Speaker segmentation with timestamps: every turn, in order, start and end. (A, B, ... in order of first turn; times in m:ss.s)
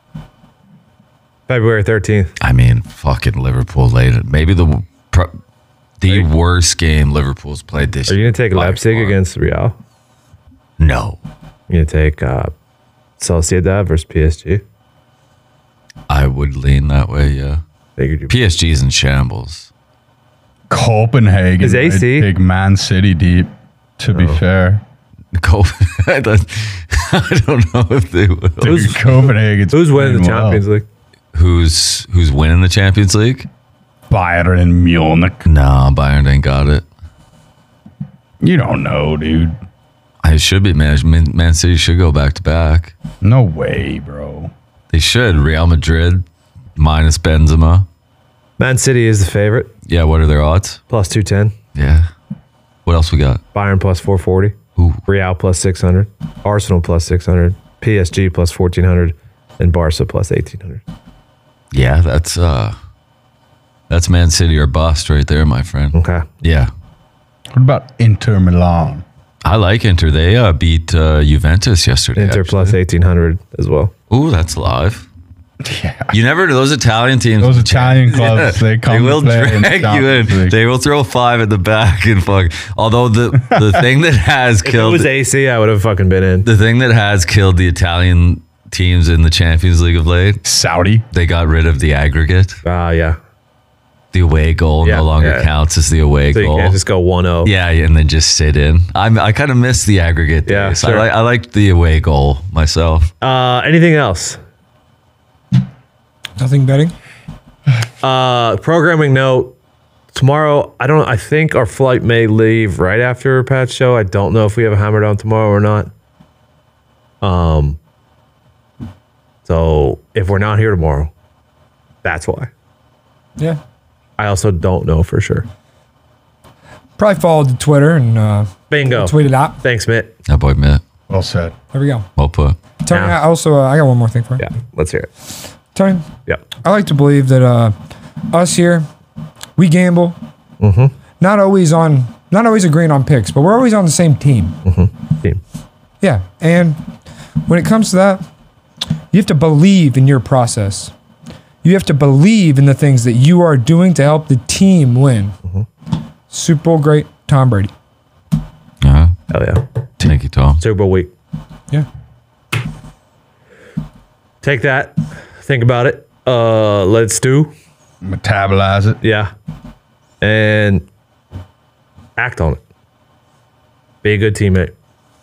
0:01.5-0:02.3 A
0:02.4-0:05.3 B
0:06.0-0:09.2 B
0:08.1-0:09.7 A
0:10.8-0:11.2 B
0:11.7-0:12.5 A
0:13.2-0:14.6 A
0:16.1-0:17.6 B
0:18.0-0:18.3 A
0:18.3-0:19.7 B
0:20.7-0:24.8 C
0:21.6-0:22.3 A
0:24.1-0:24.4 A
0:25.4-0:29.0 B
0:28.6-0:30.6 C
0:28.6-0:30.8 A
0:31.3-0:33.5 B
0:34.1-0:35.4 C
0:35.4-0:36.8 B
0:38.4-0:39.5 C
0:40.2-0:42.9 B
0:43.2-0:44.5 C
0:44.9-0:46.2 B
0:46.8-0:47.8 B
0:48.6-0:49.7 A
0:49.8-0:50.8 B
0:50.9-0:51.5 A
0:51.7-0:52.1 B
0:52.8-0:53.4 B
0:53.5-0:54.6 A
0:54.8-0:55.0 B
0:55.1-1:00.8 A
1:01.7-1:02.7 B
1:03.9-1:06.7 B
1:05.9-1:06.2 A
1:07.5-1:09.0 C
1:09.4-1:12.8 B
1:12.2-1:13.9 A
1:14.1-1:15.1 B
1:15.6-1:16.1 C
1:16.1-1:25.1 B
1:17.4-1:20.6 C
1:24.6-1:26.5 A
1:26.4-1:30.4 B
1:30.4-1:31.0 C
1:31.1-1:32.6 B
1:32.6-1:33.2 A
1:34.1-1:36.8 B
1:34.8-1:35.5 A
1:36.3-1:37.5 A
1:37.4-1:43.1 B
1:40.4-1:41.1 A
1:43.2-1:44.4 A
1:46.4-1:46.9 D
1:48.0-1:49.5 A
1:50.1-1:55.9 A
1:57.2-1:57.8 A
1:59.4-2:01.1 A
2:02.0-2:02.5 A
2:04.2-2:05.4 A
2:07.0-2:09.6 D
2:08.7-2:10.1 A
2:10.3-2:10.8 B
2:11.1-2:11.5 C
2:11.7-2:12.1 D
2:12.2-2:12.6 B
2:12.8-2:14.4 D
2:12.9-2:13.2 A
2:14.4-2:15.1 A
2:15.7-2:16.1 D
2:16.6-2:17.7 D
2:18.3-2:18.8 D
2:19.6-2:20.2 D
2:20.6-2:20.9 A
2:21.2-2:24.6 D
2:24.6-2:25.4 A
2:26.0-2:26.8 D
2:27.5-2:28.2 D
2:29.1-2:30.9 D
2:31.6-2:35.3 D
2:36.3-2:37.7 D
2:38.8-2:39.1 B
2:39.3-2:39.6 A
2:40.0-2:40.6 B
2:40.6-2:41.1 A
2:44.4-2:47.5 A
2:48.0-2:49.0 C
2:49.0-2:49.3 A
2:50.2-2:50.8 A
2:52.2-2:52.6 A
2:54.0-2:54.7 A